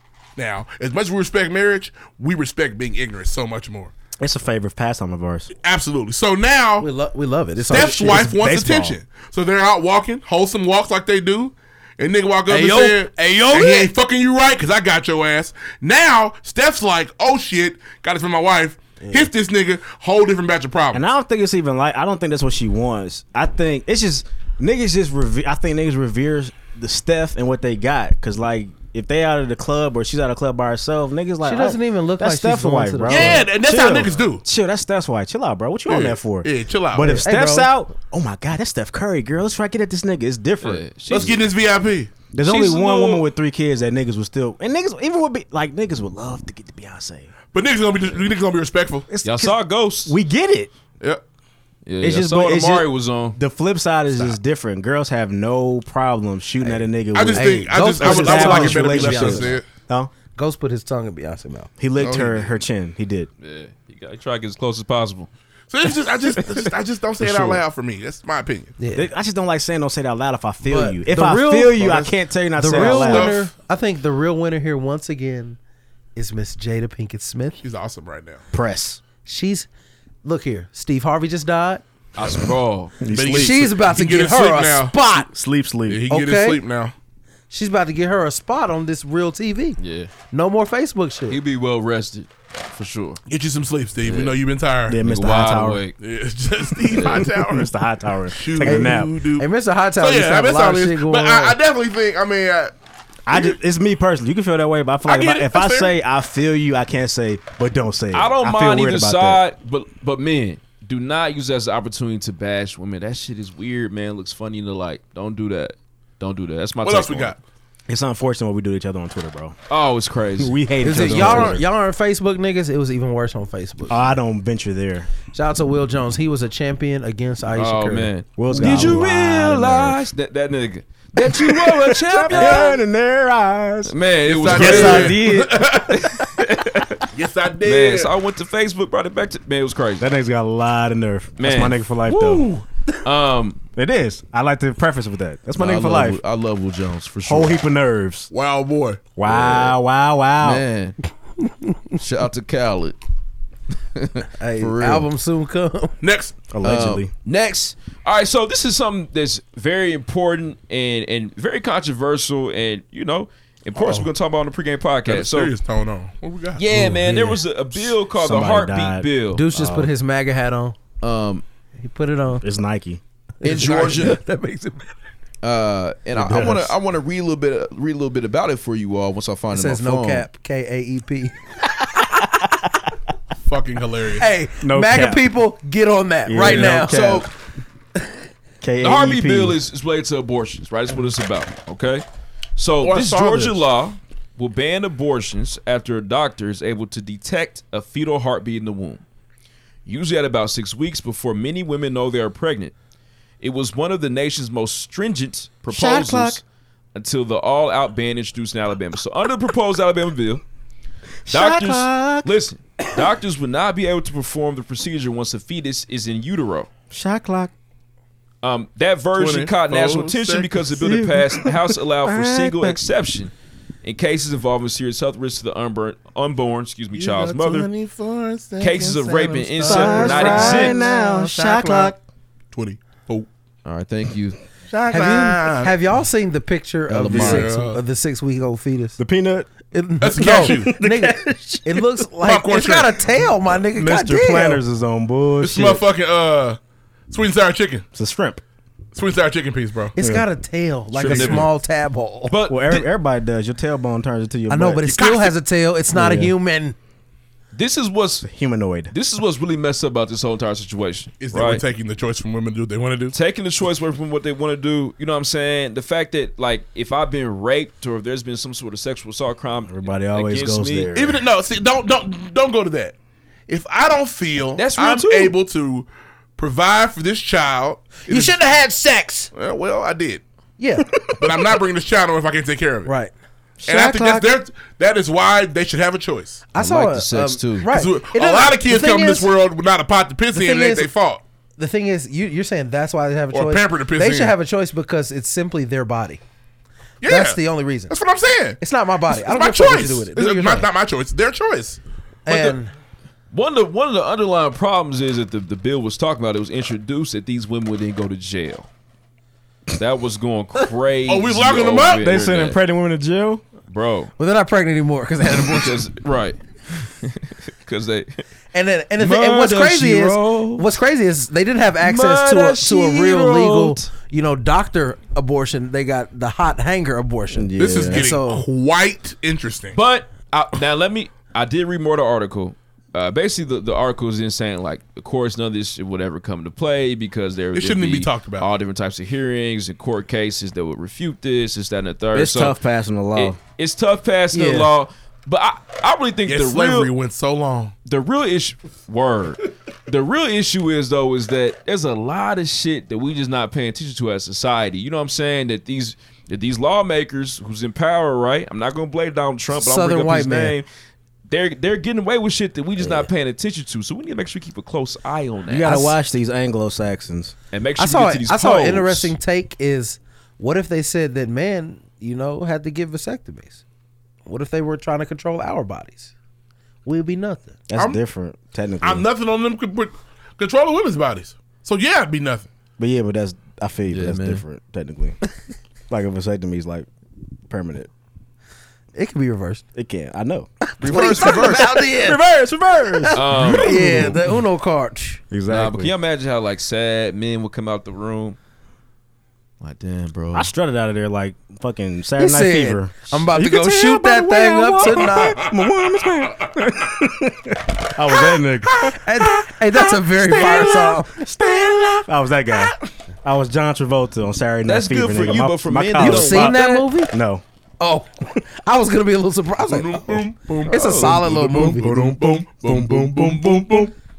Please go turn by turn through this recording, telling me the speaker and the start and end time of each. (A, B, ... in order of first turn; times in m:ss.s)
0:00.4-0:03.9 A
0:04.2-0:05.5 B
0:05.6-0:06.9 A
0:06.8-0:08.3 C
0:07.7-0:09.0 B
0:07.7-0:21.1 A
0:12.5-0:13.9 C
0:19.0-0:19.3 C
0:20.9-0:40.8 B
0:31.4-0:33.5 C
0:33.1-0:34.4 A
0:35.9-0:37.2 A
0:37.1-0:37.7 C
0:40.6-0:41.4 D
0:41.1-0:43.2 A
0:42.3-0:47.3 B
0:47.5-0:49.1 A
0:49.1-0:50.7 B
0:49.2-0:50.1 D
0:51.8-0:53.4 D
0:52.0-1:00.1 B
0:57.1-0:59.6 A
0:57.3-0:59.6 C
1:00.3-1:01.7 C
1:01.8-1:03.3 B
1:02.0-1:02.4 A
1:03.4-1:05.3 D
1:05.7-1:08.7 A
1:07.2-1:07.6 B
1:08.8-1:09.1 C
1:08.9-1:13.3 B
1:10.6-1:11.9 C
1:11.8-1:12.1 A
1:12.6-1:15.6 C
1:12.7-1:13.4 A
1:16.2-1:17.6 C
1:17.6-1:18.4 A
1:18.5-1:19.0 B
1:19.2-1:19.7 C
1:20.2-1:21.8 C
1:22.2-1:22.9 D
1:23.0-1:23.6 B
1:23.1-1:25.0 A
1:23.3-1:25.3 C
1:25.3-1:26.0 B
1:25.9-1:26.9 A
1:26.1-1:26.6 C
1:27.5-1:29.8 C
1:29.8-1:30.1 D
1:30.3-1:31.4 C
1:31.3-1:33.2 D
1:33.3-1:35.0 A
1:34.0-1:34.3 D
1:34.9-1:35.8 B
1:35.0-1:35.9 D
1:36.0-1:37.7 A
1:36.9-1:39.1 B
1:37.0-1:37.2 D
1:38.3-1:42.7 A
1:38.6-1:41.6 C
1:43.3-1:49.4 B
1:45.0-1:45.9 A
1:48.1-1:57.4 D
1:56.8-1:57.4 A
1:57.9-1:59.6 B
1:59.7-2:00.6 D
2:00.4-2:01.6 B
2:00.8-2:04.0 C
2:01.1-2:01.5 D
2:03.9-2:05.1 B
2:05.3-2:08.7 C
2:07.6-2:12.8 D
2:08.4-2:10.1 B
2:11.2-2:15.8 B
2:13.9-2:15.2 D
2:14.2-2:16.0 A
2:14.7-2:15.0 C
2:15.9-2:17.1 D
2:17.1-2:18.1 A
2:17.6-2:20.0 D
2:20.0-2:22.5 B
2:21.4-2:22.4 D
2:23.0-2:23.6 D
2:23.8-2:26.2 B
2:25.6-2:27.5 E
2:27.3-2:28.3 B
2:28.3-2:29.1 A
2:29.2-2:30.6 B
2:29.2-2:29.8 E
2:30.4-2:31.0 E
2:32.0-2:33.0 E
2:34.0-2:35.1 E
2:34.4-2:35.9 C
2:36.0-2:36.4 A
2:36.5-2:37.1 B
2:36.6-2:37.7 E
2:37.9-2:45.5 D
2:45.1-2:46.6 A
2:46.6-2:49.4 D
2:46.7-2:49.8 B
2:49.3-2:50.8 C
2:51.0-2:51.4 E
2:51.8-2:52.4 C
2:52.4-2:53.0 B
2:53.4-2:54.9 C
2:53.4-2:54.2 E
2:55.4-3:00.2 E
2:56.1-2:56.7 B
2:59.5-3:01.3 C
3:03.4-3:04.3 A
3:04.2-3:07.0 C
3:04.6-3:05.2 B
3:06.2-3:07.3 B
3:06.6-3:07.3 E
3:08.6-3:09.6 B
3:08.8-3:12.0 D
3:12.6-3:19.0 D
3:12.8-3:13.6 A
3:19.8-3:22.7 D
3:23.4-3:26.4 D
3:25.7-3:26.4 B
3:26.9-3:30.4 D
3:31.2-3:32.3 B
3:31.3-3:36.7 D
3:36.9-3:37.5 B
3:38.4-3:43.3 D
3:39.2-3:40.6 A
3:40.7-3:42.8 B
3:43.8-3:47.7 D
3:46.9-3:51.9 A
3:48.6-3:50.8 D
3:49.6-3:52.0 B
3:49.8-3:51.8 C
3:52.5-3:53.3 A
3:53.6-3:54.4 E
3:54.7-3:55.7 A
3:54.9-3:59.0 C
3:56.9-3:57.6 E
3:57.1-3:57.8 A
3:59.0-3:59.5 B
3:59.7-4:04.6 C
4:00.0-4:00.8 A
4:00.2-4:01.8 B
4:02.2-4:03.0 A
4:03.6-4:05.8 B
4:05.4-4:06.6 A
4:07.1-4:07.8 A
4:07.9-4:08.4 B
4:08.9-4:09.9 A
4:10.0-4:12.3 C
4:10.0-4:10.2 B
4:10.9-4:11.5 D
4:11.0-4:11.5 B
4:12.3-4:12.8 D
4:12.5-4:14.9 B
4:14.5-4:16.8 C
4:14.9-4:15.3 A
4:15.9-4:16.3 B
4:17.5-4:18.3 D
4:18.2-4:18.9 B
4:18.9-4:21.6 D
4:21.2-4:23.1 A
4:23.1-4:30.9 D
4:29.6-4:31.2 B
4:30.9-4:32.9 A
4:33.5-4:38.4 A
4:34.6-4:35.4 D
4:38.1-4:39.3 C
4:39.3-4:40.2 A
4:40.6-4:40.9 C
4:41.0-4:41.2 B
4:41.2-4:42.9 A
4:42.8-4:43.1 C
4:43.6-4:44.3 B
4:43.6-4:46.4 A
4:46.5-4:49.3 C
4:46.6-4:47.7 E
4:47.7-4:51.2 A
4:50.3-4:50.9 C
4:51.6-4:56.2 C
4:53.3-4:54.3 A
4:57.0-4:58.6 A
4:57.0-4:57.9 C
4:58.6-5:00.7 C
4:59.1-5:01.8 A
5:02.2-5:02.7 C
5:02.3-5:02.6 D
5:03.3-5:08.7 D
5:09.7-5:12.6 D
5:11.1-5:12.2 A
5:12.0-5:13.4 B
5:13.7-5:14.1 D
5:14.2-5:15.8 C
5:15.4-5:18.2 D
5:18.5-5:28.4 C
5:19.0-5:20.6 D
5:21.8-5:23.8 D
5:27.3-5:28.0 B
5:27.6-5:29.8 A
5:29.7-5:42.6 D
5:37.5-5:38.5 A
5:42.1-5:43.4 B
5:43.2-5:46.9 D
5:44.3-5:44.7 C
5:46.2-5:47.7 A
5:47.9-6:00.7 D
5:59.5-6:00.6 C
6:01.3-6:05.9 D
6:05.5-6:07.3 B
6:07.5-6:09.1 D
6:07.8-6:13.6 C
6:14.2-6:16.1 C
6:16.8-6:17.6 C
6:17.7-6:19.0 B
6:17.8-6:18.0 A
6:18.8-6:22.5 A
6:22.8-6:25.2 B
6:23.9-6:24.4 E
6:25.9-6:26.9 B
6:27.5-6:27.9 B
6:28.9-6:29.6 C
6:29.7-6:34.3 B
6:30.6-6:32.2 C
6:30.8-6:31.6 E
6:33.0-6:35.2 C
6:33.1-6:33.8 D
6:35.3-6:35.9 B
6:35.5-6:38.4 D
6:39.6-6:40.5 E
6:40.3-6:57.4 B
6:42.2-6:45.4 C
6:48.9-6:51.2 C
6:54.6-6:56.9 D
6:56.0-6:57.1 C
6:57.8-7:02.4 C
6:59.7-7:03.9 A
7:02.2-7:03.9 B